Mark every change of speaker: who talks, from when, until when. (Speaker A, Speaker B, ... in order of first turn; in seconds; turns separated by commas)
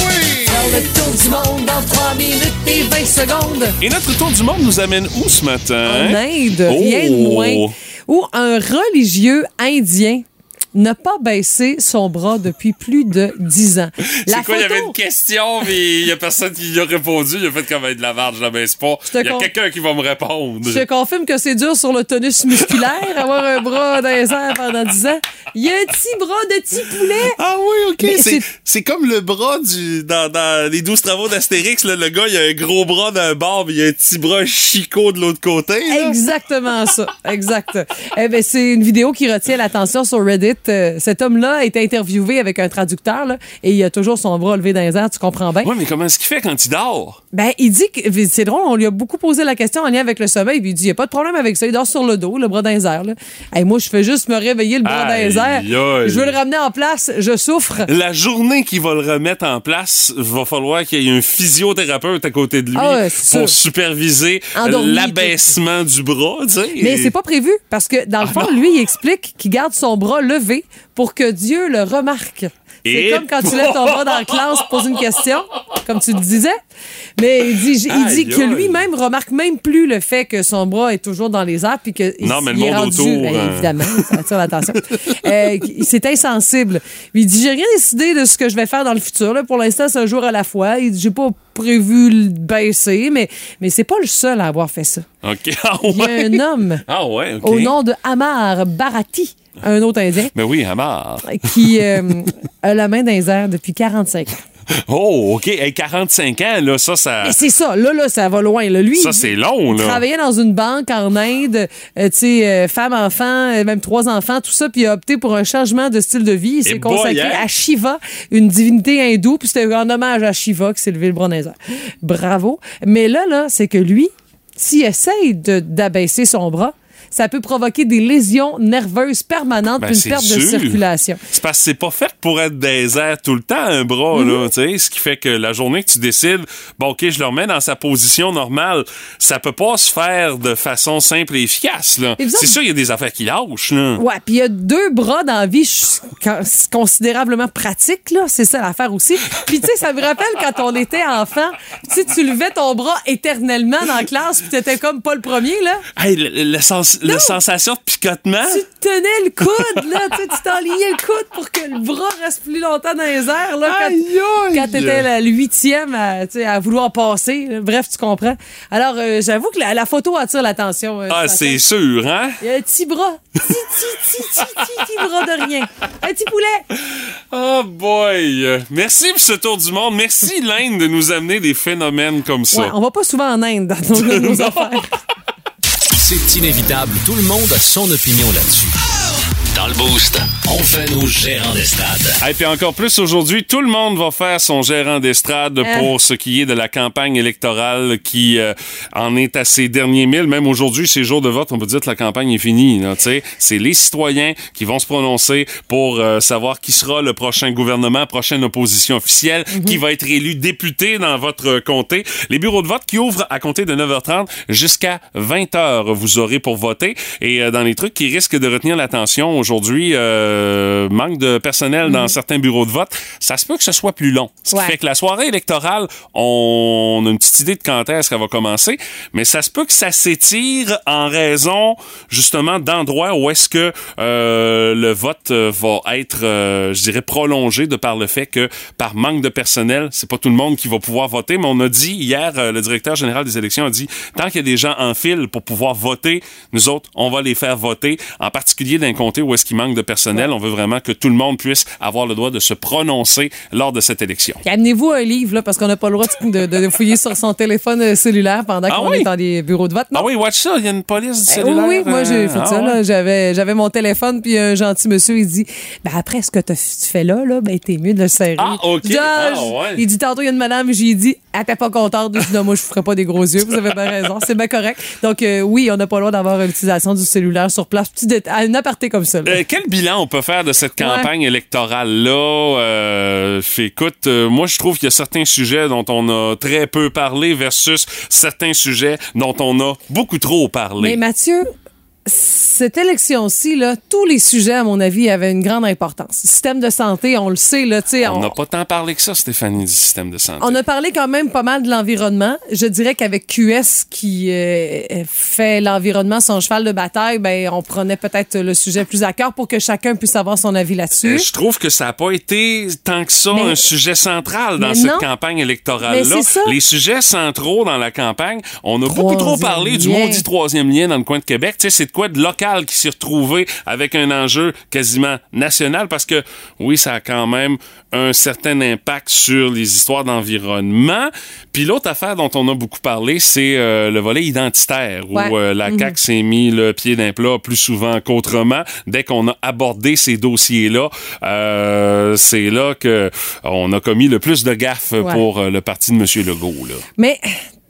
Speaker A: 0.5-3.8, Speaker B: 3.8-7.7, Speaker A: 5.9-14.9, Speaker B: 14.0-20.9, Speaker A: 19.1-19.5, Speaker A: 20.7-27.4, Speaker B: 22.7-23.0, Speaker B: 27.3-36.2, Speaker A: 28.0-28.4, Speaker A: 35.9-45.7, Speaker B: 45.6-47.2, Speaker A: 47.3-57.9, Speaker B: 54.8-56.4, Speaker B: 57.9-67.1, Speaker A: 62.8-63.5, Speaker A: 64.5-65.4, Speaker A: 66.8-76.6, Speaker B: 68.2-68.5, Speaker B: 72.8-74.6, Speaker A: 77.2-95.1, Speaker B: 77.9-78.8, Speaker B: 82.2-84.1, Speaker B: 95.2-97.7, Speaker A: 95.9-96.8, Speaker A: 97.4-100.3, Speaker B: 100.3-102.1, Speaker A: 101.2-104.4, Speaker B: 104.8-107.4, Speaker A: 107.2-131.2, Speaker B: 109.0-110.0, Speaker B: 116.7-117.5, Speaker B: 129.8-144.0, Speaker A: 134.1-134.5, Speaker A: 142.2-142.6, Speaker A: 144.0-155.8, Speaker B: 156.0-158.6, Speaker A: 157.1-157.3, Speaker A: 158.5-171.6, Speaker B: 159.5-160.2, Speaker B: 163.7-165.1, Speaker B: 171.1-172.4, Speaker A: 172.4-176.6, Speaker B: 174.4-174.6, Speaker B: 177.3-182.7, Speaker A: 182.5-184.9, Speaker B: 183.9-184.8, Speaker C: 185.9-188.8, Speaker C: 189.5-192.2, Speaker B: 192.2-254.4, Speaker A: 195.6-195.9, Speaker A: 209.5-209.8, Speaker A: 221.9-222.1, Speaker A: 254.4-260.1, Speaker B: 258.7-259.1, Speaker B: 259.9-262.8, Speaker A: 261.3-279.4, Speaker B: 268.4-269.8, Speaker B: 279.3-291.0, Speaker A: 280.8-281.1, Speaker A: 290.8-291.5, Speaker A: 292.1-298.3, Speaker B: 298.0-300.6, Speaker A: 300.4-311.3, Speaker B: 311.0-346.8, Speaker A: 313.3-313.6, Speaker A: 314.6-315.1, Speaker A: 315.9-316.6, Speaker A: 318.9-320.2, Speaker A: 335.1-335.9, Speaker A: 347.0-347.4